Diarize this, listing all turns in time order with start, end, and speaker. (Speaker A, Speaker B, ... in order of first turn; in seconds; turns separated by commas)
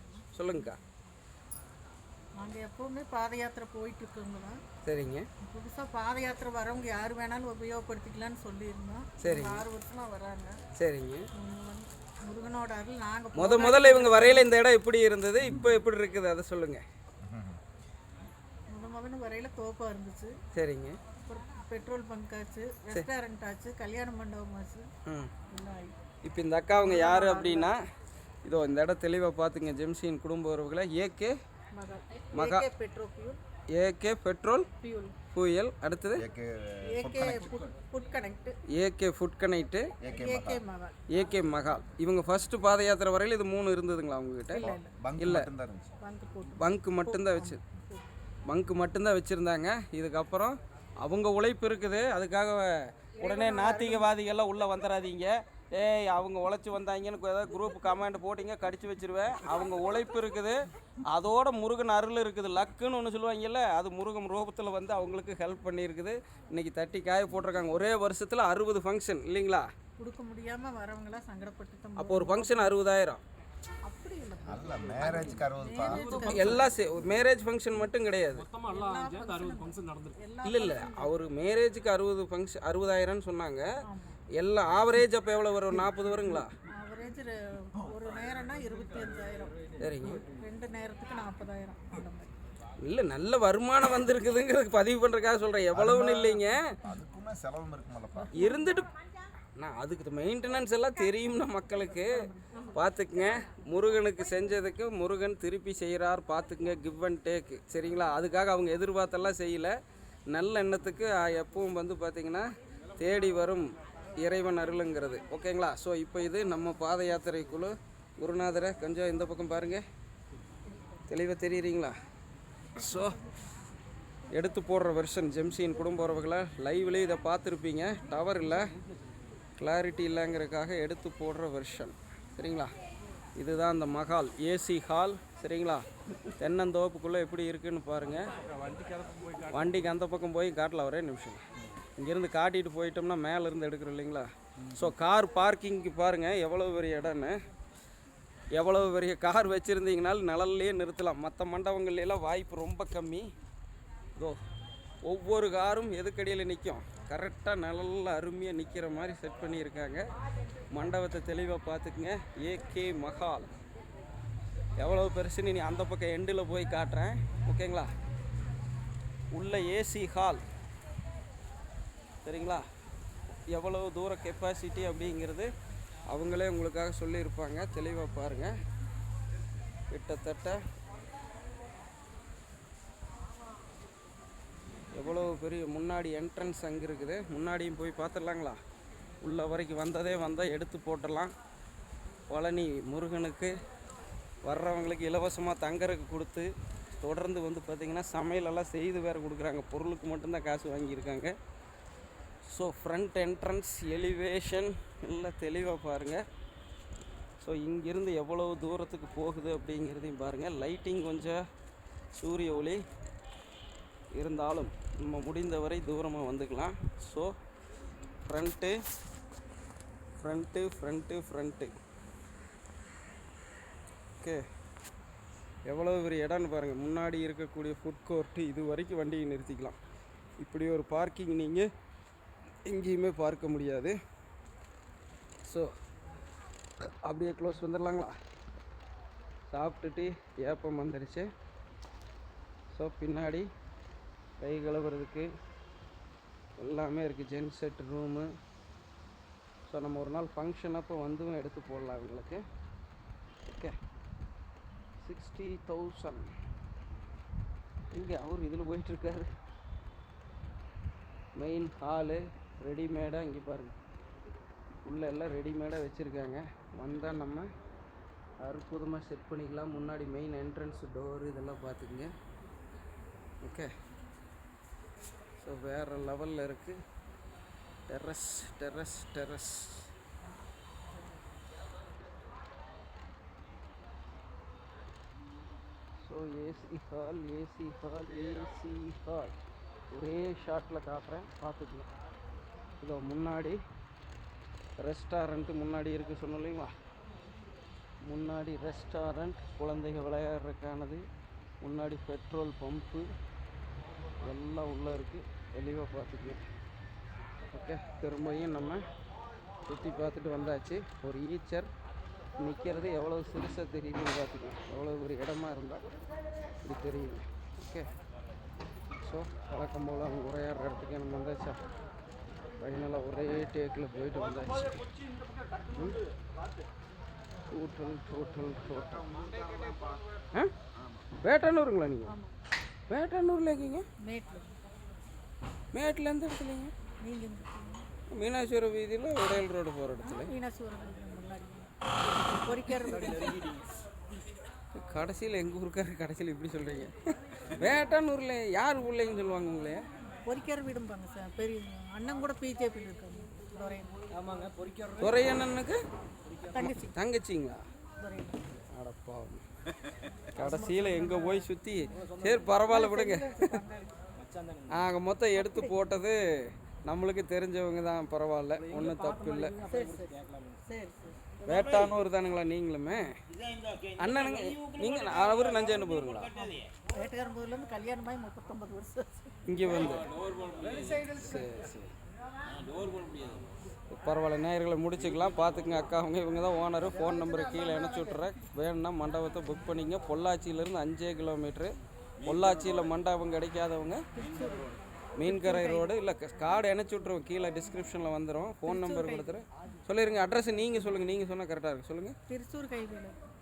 Speaker A: 0.3-0.8, Speaker B: 2.4-4.6, Speaker A: 4.8-5.3, Speaker B: 5.4-10.6, Speaker A: 9.2-9.7, Speaker A: 10.8-11.3, Speaker B: 11.3-14.5, Speaker A: 13.3-16.8, Speaker C: 17.2-17.6, Speaker B: 18.7-20.4, Speaker A: 20.5-21.0, Speaker B: 21.2-24.9, Speaker A: 25.1-25.3, Speaker B: 25.5-26.0, Speaker A: 26.2-27.8, Speaker B: 26.7-27.7, Speaker A: 28.4-31.4, Speaker B: 31.7-33.4, Speaker A: 32.4-32.6, Speaker A: 33.7-34.7, Speaker B: 34.8-35.2, Speaker A: 35.3-36.2, Speaker C: 36.2-37.6, Speaker B: 36.9-38.6, Speaker A: 38.8-39.9, Speaker C: 40.0-40.6, Speaker B: 40.1-41.0, Speaker A: 41.1-45.5, Speaker B: 44.5-44.9, Speaker C: 44.6-46.0, Speaker B: 46.0-48.1, Speaker A: 46.6-47.6, Speaker A: 48.5-69.7, Speaker B: 53.2-54.1, Speaker B: 70.0-72.7, Speaker A: 72.0-73.2, Speaker B: 73.8-76.8, Speaker C: 74.5-76.2, Speaker D: 75.9-76.4, Speaker A: 76.2-78.5, Speaker D: 78.5-80.2, Speaker B: 78.6-81.1, Speaker A: 80.4-83.7, Speaker B: 83.8-84.2, Speaker A: 84.3-86.5, Speaker B: 86.7-92.3, Speaker A: 89.8-90.2, Speaker A: 92.8-96.8, Speaker C: 95.7-98.4, Speaker A: 98.3-98.9, Speaker A: 99.6-109.8, Speaker B: 102.0-102.8, Speaker A: 110.3-112.5, Speaker A: 113.0-119.8, Speaker A: 121.1-121.9, Speaker A: 122.8-123.2, Speaker A: 124.3-128.7, Speaker A: 129.6-132.7, Speaker A: 133.4-135.8, Speaker A: 136.4-138.2, Speaker A: 139.5-141.4, Speaker A: 142.0-147.4, Speaker A: 148.5-153.3, Speaker A: 155.1-160.0, Speaker A: 160.7-163.6, Speaker A: 164.8-167.9, Speaker A: 169.3-170.4, Speaker A: 172.2-172.7, Speaker A: 173.5-175.5, Speaker A: 176.1-178.5, Speaker A: 179.9-180.6, Speaker A: 184.9-188.6, Speaker A: 189.2-191.3, Speaker A: 192.3-193.5, Speaker A: 194.4-201.3, Speaker A: 202.5-206.2, Speaker A: 207.4-211.4, Speaker A: 212.2-212.8, Speaker A: 214.1-217.3, Speaker A: 218.3-218.8, Speaker A: 220.2-221.7, Speaker A: 225.7-229.8, Speaker A: 230.4-231.7, Speaker A: 232.7-234.0, Speaker A: 235.4-235.7, Speaker A: 237.1-238.2, Speaker A: 239.5-241.3, Speaker A: 242.7-243.5, Speaker A: 244.4-245.3, Speaker A: 246.6-248.3, Speaker A: 249.7-252.4, Speaker A: 253.5-253.8, Speaker A: 255.0-256.3, Speaker A: 257.9-259.3, Speaker A: 261.4-263.8, Speaker A: 264.8-267.5, Speaker A: 268.4-272.1, Speaker A: 273.4-273.7, Speaker A: 275.4-276.8, Speaker A: 277.9-279.9, Speaker A: 286.0-289.4, Speaker A: 289.9-291.9, Speaker A: 292.8-293.6, Speaker A: 294.8-296.7, Speaker A: 298.0-301.0, Speaker A: 301.6-303.1, Speaker A: 304.2-306.4, Speaker A: 307.5-308.8, Speaker A: 309.7-311.7, Speaker A: 312.4-315.8, Speaker A: 316.6-317.9, Speaker A: 319.0-321.6, Speaker A: 322.6-324.9, Speaker A: 325.7-326.0, Speaker A: 327.5-329.8, Speaker A: 331.2-332.1, Speaker B: 332.1-332.3, Speaker A: 332.9-333.9, Speaker B: 334.0-334.6, Speaker A: 335.7-336.7, Speaker B: 337.0-337.9, Speaker A: 338.1-340.3, Speaker B: 340.0-343.5, Speaker D: 343.1-343.6, Speaker A: 344.8-346.9, Speaker A: 347.5-349.8, Speaker B: 350.3-353.9, Speaker D: 354.2-355.1, Speaker A: 355.0-355.8, Speaker B: 356.5-356.9, Speaker A: 356.8-357.6, Speaker B: 358.0-358.4, Speaker A: 358.7-359.4, Speaker A: 360.4-363.6, Speaker B: 362.7-364.0, Speaker D: 364.2-364.7, Speaker A: 364.7-366.2, Speaker B: 365.4-365.8, Speaker A: 366.9-369.6, Speaker D: 368.7-370.4, Speaker B: 369.7-371.3, Speaker A: 371.4-373.2, Speaker A: 374.0-376.3, Speaker B: 376.9-379.3, Speaker A: 379.5-380.1, Speaker B: 380.7-381.4, Speaker A: 381.0-381.9, Speaker A: 383.9-391.7, Speaker A: 392.2-394.0, Speaker B: 394.1-395.9, Speaker A: 395.2-402.1, Speaker B: 398.7-399.4, Speaker B: 402.3-403.2